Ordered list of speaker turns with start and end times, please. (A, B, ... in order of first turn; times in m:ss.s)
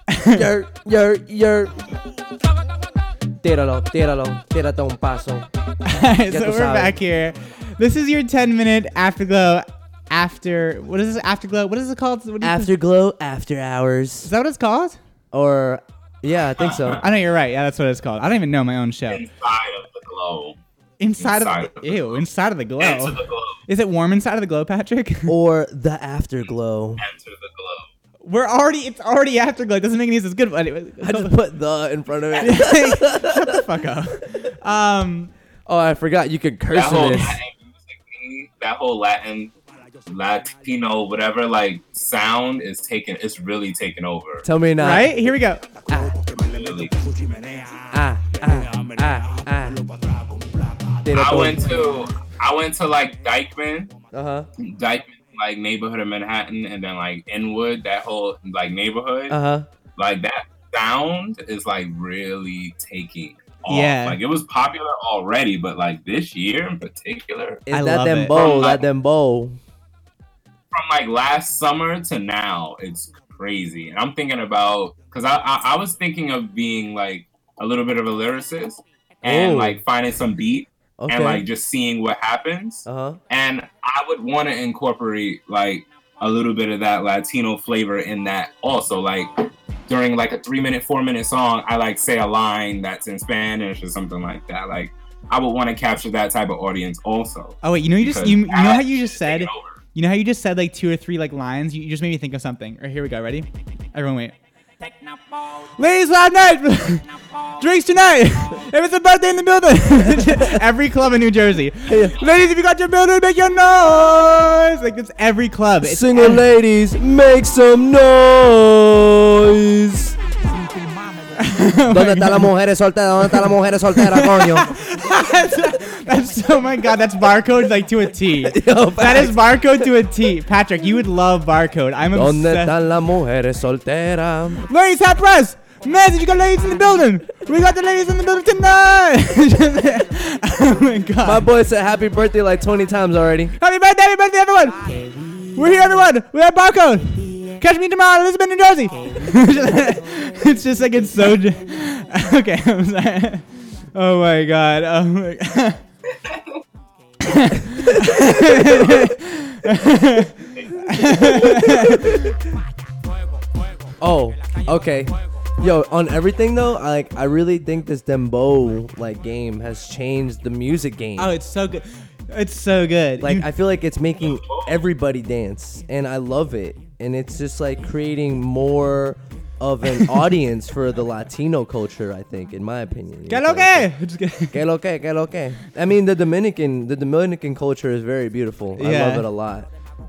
0:00.1-0:00.5 A
0:00.2-0:01.8 B
0:03.4-0:05.5 B
0:05.8-0:12.7 A
0:06.3-0:07.0 B
0:12.4-0:14.3 B
0:14.2-0:15.0 A
0:15.3-0:17.0 B
0:16.6-0:17.0 C
0:17.0-0:19.2 A
0:19.1-0:20.6 C
0:21.0-0:25.3 A
0:21.2-0:22.2 C
0:22.8-0:23.6 C
0:25.3-0:27.0 B
0:27.0-0:27.9 C
0:28.2-0:31.4 A
0:31.0-0:33.6 B
0:32.4-0:35.3 A
0:35.7-0:37.4 B
0:36.7-0:39.5 C
0:40.0-0:44.4 C
0:44.4-0:45.3 B
0:44.8-0:45.6 A
0:45.9-0:46.2 B
0:46.3-0:46.9 C
0:47.9-0:49.8 B
0:51.0-0:51.6 B
0:51.1-0:53.9 C
0:54.1-0:54.5 B
0:54.6-0:59.4 C
0:59.3-0:59.7 B
1:00.0-1:07.6 C
1:03.7-1:04.2 A
1:07.7-1:09.6 B
1:07.7-1:08.3 A
1:08.3-1:08.8 C
1:10.7-1:39.8 C
1:19.2-1:19.8 B
1:21.0-1:21.4 B
1:22.8-1:23.2 B
1:37.6-1:44.3 A
1:45.8-1:56.5 A
1:50.3-1:50.6 B
1:51.9-1:52.2 B
1:55.8-2:00.2 B
2:01.4-2:02.5 A
2:01.9-2:04.7 B
2:04.0-2:12.8 A
2:08.4-2:09.8 B
2:12.1-2:14.6 B
2:14.6-2:21.5 A
2:21.2-2:23.5 B
2:23.6-2:35.8 A
2:37.2-2:42.2 A
2:40.5-2:41.8 C
2:41.6-2:42.3 B
2:44.0-2:51.3 B
2:51.2-2:53.5 A
2:53.2-3:03.9 B
2:54.2-2:54.8 C
3:03.3-3:04.6 A
3:04.5-3:09.7 B
3:08.8-3:09.3 A